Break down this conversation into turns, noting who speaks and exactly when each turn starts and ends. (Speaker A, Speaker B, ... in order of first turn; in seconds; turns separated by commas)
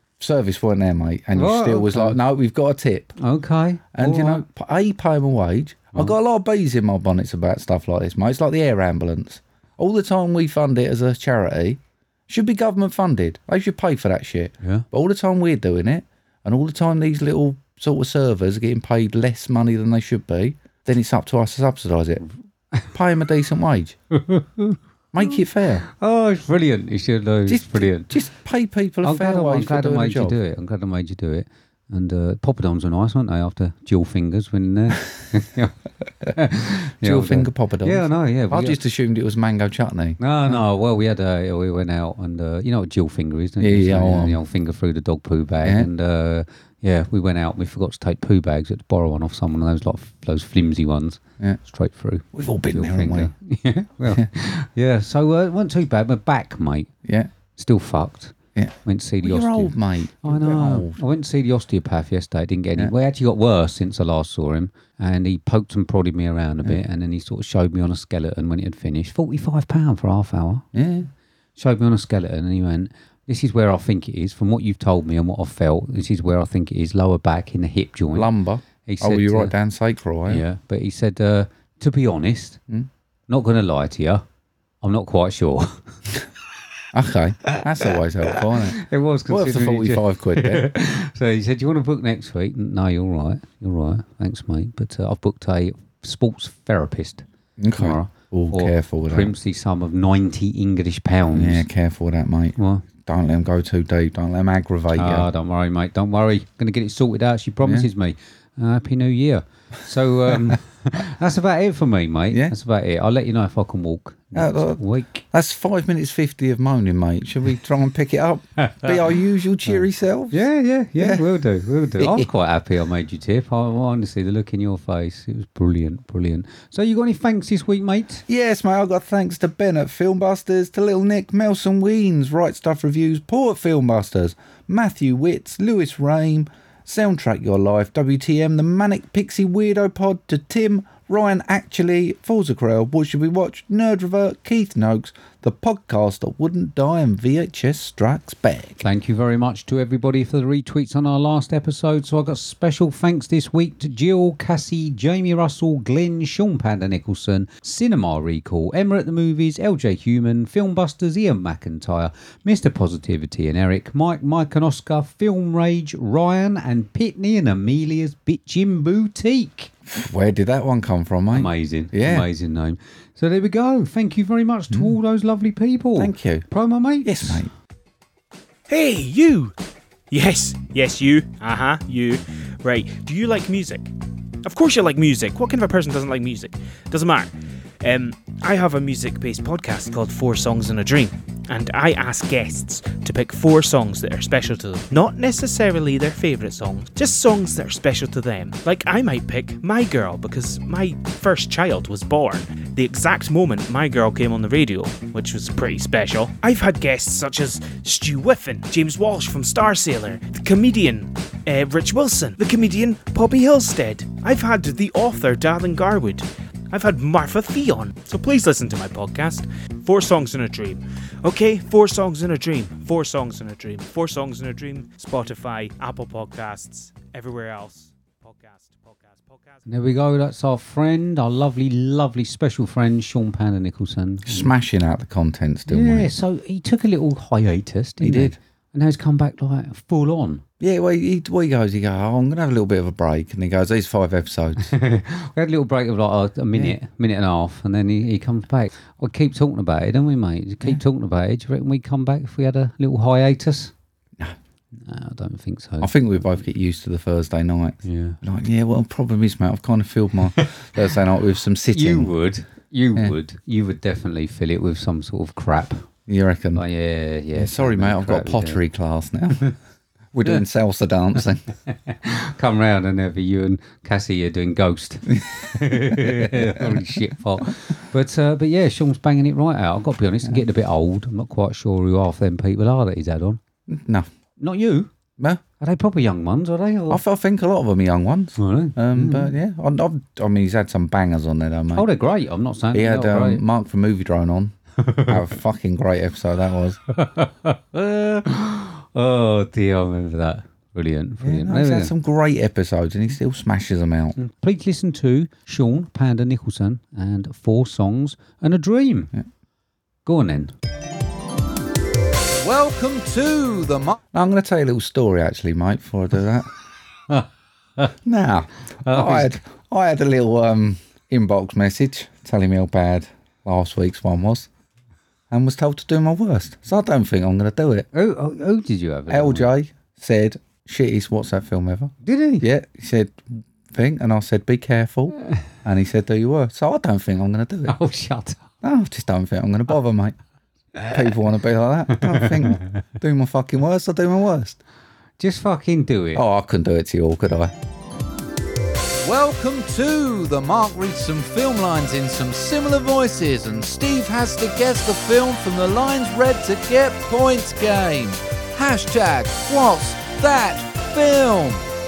Speaker A: 0.2-3.2, Speaker B: 1.3-2.2, Speaker B: 3.2-4.5, Speaker A: 3.9-22.2, Speaker A: 22.9-24.0, Speaker B: 24.1-28.1, Speaker A: 25.1-25.8, Speaker A: 27.5-30.4, Speaker B: 29.0-35.8, Speaker B: 36.4-38.8, Speaker A: 37.0-40.6, Speaker B: 40.2-56.9, Speaker A: 43.6-44.4, Speaker A: 45.6-45.9, Speaker A: 52.3-53.3, Speaker A: 57.0-57.3, Speaker B: 57.6-70.7, Speaker A: 58.6-61.0, Speaker A: 70.7-71.1, Speaker B: 71.6-78.3, Speaker A: 78.1-80.4, Speaker B: 78.8-79.5, Speaker B: 80.3-82.6, Speaker B: 83.3-84.2, Speaker B: 84.8-85.8, Speaker A: 86.9-88.8, Speaker B: 87.8-97.2, Speaker A: 89.3-90.7, Speaker A: 97.6-99.3, Speaker B: 97.8-101.7, Speaker A: 101.3-105.3, Speaker B: 102.6-102.8, Speaker B: 104.9-115.2, Speaker A: 107.6-107.9, Speaker A: 114.3-114.8, Speaker A: 115.3-120.4, Speaker B: 118.6-119.1, Speaker B: 119.7-128.2, Speaker A: 121.0-121.3, Speaker A: 122.0-122.3, Speaker A: 128.3-148.8, Speaker B: 148.8-169.7, Speaker A: 169.9-172.3, Speaker B: 171.3-177.4, Speaker A: 176.0-176.5, Speaker A: 177.0-177.5, Speaker C: 178.7-179.5, Speaker C: 180.1-183.9, Speaker C: 184.4-229.7, Speaker B: 229.7-234.5, Speaker A: 234.3-236.1, Speaker B: 235.7-240.4, Speaker A: 238.0-238.4, Speaker A: 240.6-244.7, Speaker B: 244.7-253.7, Speaker B: 254.8-255.9, Speaker A: 255.8-262.1, Speaker B: 257.8-258.2, Speaker B: 261.7-265.8, Speaker A: 266.1-266.6, Speaker B: 266.5-268.6, Speaker A: 267.4-269.5, Speaker A: 270.1-271.5, Speaker B: 271.7-283.4, Speaker A: 275.1-276.8, Speaker A: 283.7-284.1, Speaker B: 284.4-284.9, Speaker B: 285.6-287.0, Speaker A: 286.9-291.9, Speaker B: 288.4-289.3, Speaker B: 291.7-293.4, Speaker A: 292.7-296.8, Speaker B: 294.8-295.2, Speaker B: 296.9-301.9, Speaker A: 301.2-304.2, Speaker B: 304.2-309.1, Speaker B: 310.1-310.5, Speaker A: 312.4-316.5, Speaker A: 318.1-324.5, Speaker B: 318.8-319.4, Speaker A: 325.3-327.9, Speaker B: 327.9-329.5, Speaker A: 329.1-337.8, Speaker B: 332.0-332.4, Speaker B: 337.7-338.4, Speaker A: 338.6-340.2, Speaker B: 340.8-341.1, Speaker A: 340.9-344.6, Speaker B: 341.9-342.8, Speaker B: 345.2-346.2, Speaker A: 346.1-347.5, Speaker A: 349.0-361.7